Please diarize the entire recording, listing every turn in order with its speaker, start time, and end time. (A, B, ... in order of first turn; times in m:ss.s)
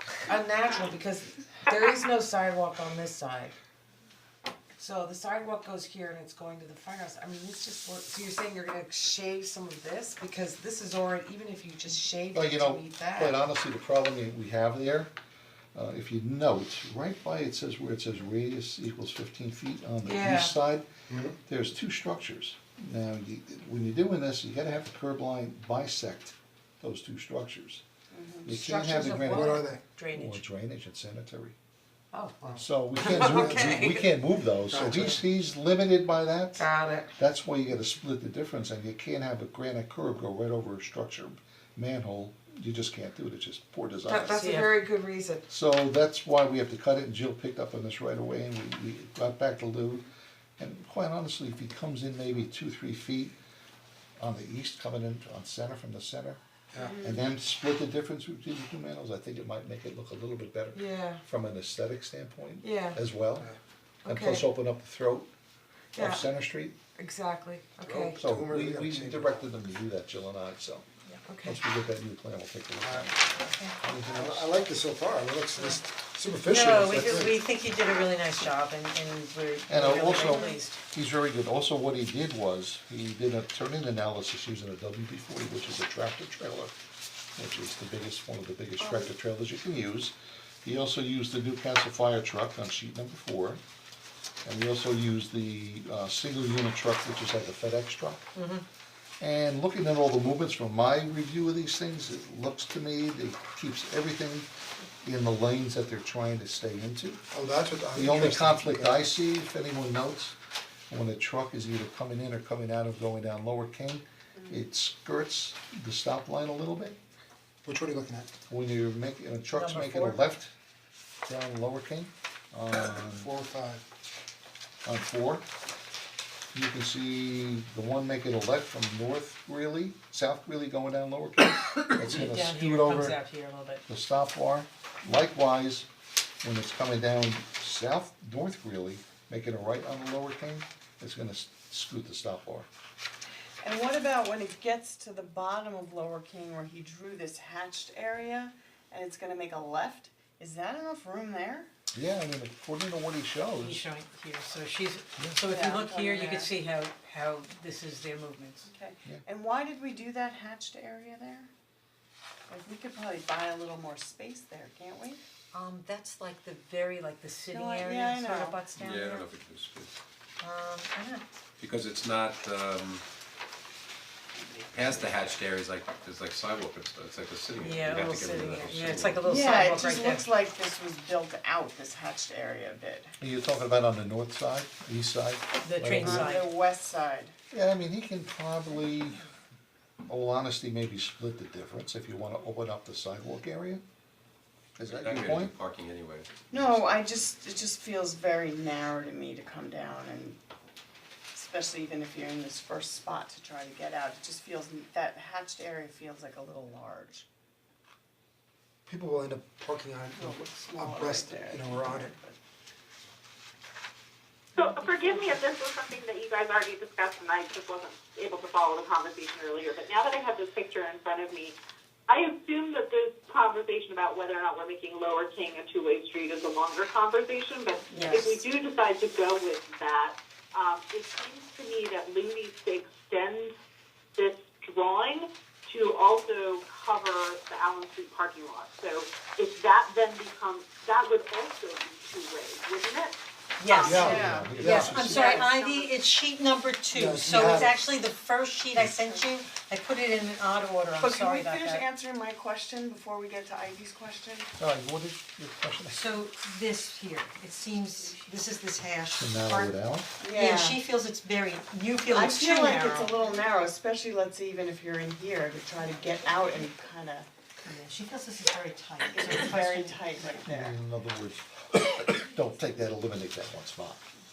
0:00.3-0:03.5 A
0:04.8-0:13.4 A
0:12.3-0:15.1 B
0:15.7-0:20.9 B
0:20.0-0:20.5 A
0:21.1-0:21.4 C
0:21.4-0:27.8 B
0:28.1-0:28.5 D
0:28.4-0:31.5 B
0:28.5-0:29.8 A
0:29.3-0:29.8 C
0:32.1-0:34.0 A
0:32.5-0:44.5 B
0:33.3-0:33.9 E
0:34.7-0:35.2 C
0:36.6-0:37.1 A
0:44.1-0:45.4 A
0:44.4-0:44.8 E
0:45.5-0:50.0 B
0:50.6-0:53.3 B
0:54.2-0:56.4 B
0:56.7-0:57.0 C
0:56.8-0:57.2 D
0:57.0-1:03.5 B
1:00.7-1:01.2 A
1:02.6-1:03.0 A
1:04.0-1:04.4 A
1:04.0-1:05.3 B
1:05.9-1:06.2 A
1:05.9-1:06.8 B
1:07.0-1:08.2 A
1:07.8-1:09.4 C
1:08.1-1:10.8 B
1:11.2-1:11.6 A
1:11.4-1:13.1 B
1:12.8-1:13.1 C
1:13.4-1:13.8 E
1:13.8-1:17.4 C
1:16.4-1:20.8 E
1:19.7-1:26.7 B
1:20.2-1:20.6 D
1:27.4-1:33.6 B
1:28.8-1:29.1 D
1:34.4-1:38.2 B
1:38.3-1:38.6 E
1:39.2-1:44.5 B
1:45.0-1:47.2 B
1:47.3-1:49.1 C
1:47.9-1:50.4 B
1:50.9-1:57.0 B
1:54.4-1:54.6 D
1:57.6-1:58.3 C
1:58.5-2:00.5 B
1:59.6-2:00.2 E
2:01.2-2:03.3 B
2:02.7-2:03.8 C
2:04.8-2:05.4 B
2:06.5-2:13.2 B
2:12.1-2:13.8 E
2:13.9-2:15.9 B
2:16.4-2:22.7 B
2:23.6-2:31.7 D
2:31.9-2:33.8 B
2:33.6-2:38.7 E
2:35.5-2:36.5 D
2:38.6-2:41.5 D
2:42.5-2:45.2 D
2:45.5-2:49.3 E
2:47.5-2:48.6 D
2:48.7-2:49.9 F
2:50.4-2:51.2 E
2:51.6-2:53.0 F
2:54.6-2:59.2 F
2:57.6-3:00.3 E
2:59.2-3:03.1 D
3:03.2-3:06.4 B
3:05.6-3:06.4 E
3:06.0-3:07.3 D
3:07.5-3:09.2 B
3:10.1-3:13.8 B
3:14.8-3:15.5 B
3:14.8-3:17.0 F
3:16.5-3:20.4 D
3:21.3-3:27.2 D
3:28.8-3:32.1 C
3:30.1-3:32.4 D
3:34.5-3:41.6 G
3:42.1-3:53.5 G
3:47.9-3:48.4 E
3:54.2-4:03.1 G
4:03.6-4:11.8 E
4:03.7-4:04.1 G
4:03.8-4:05.5 B
4:03.8-4:05.1 C
4:03.9-4:04.6 D
4:04.9-4:05.9 G
4:06.9-4:07.8 C
4:11.0-4:14.5 D
4:14.6-4:16.0 B
4:15.9-4:19.7 E
4:19.1-4:20.1 B
4:20.2-4:20.8 D
4:20.3-4:23.2 E
4:22.1-4:27.3 D
4:27.6-4:30.3 E
4:29.1-4:30.8 D
4:30.4-4:34.0 B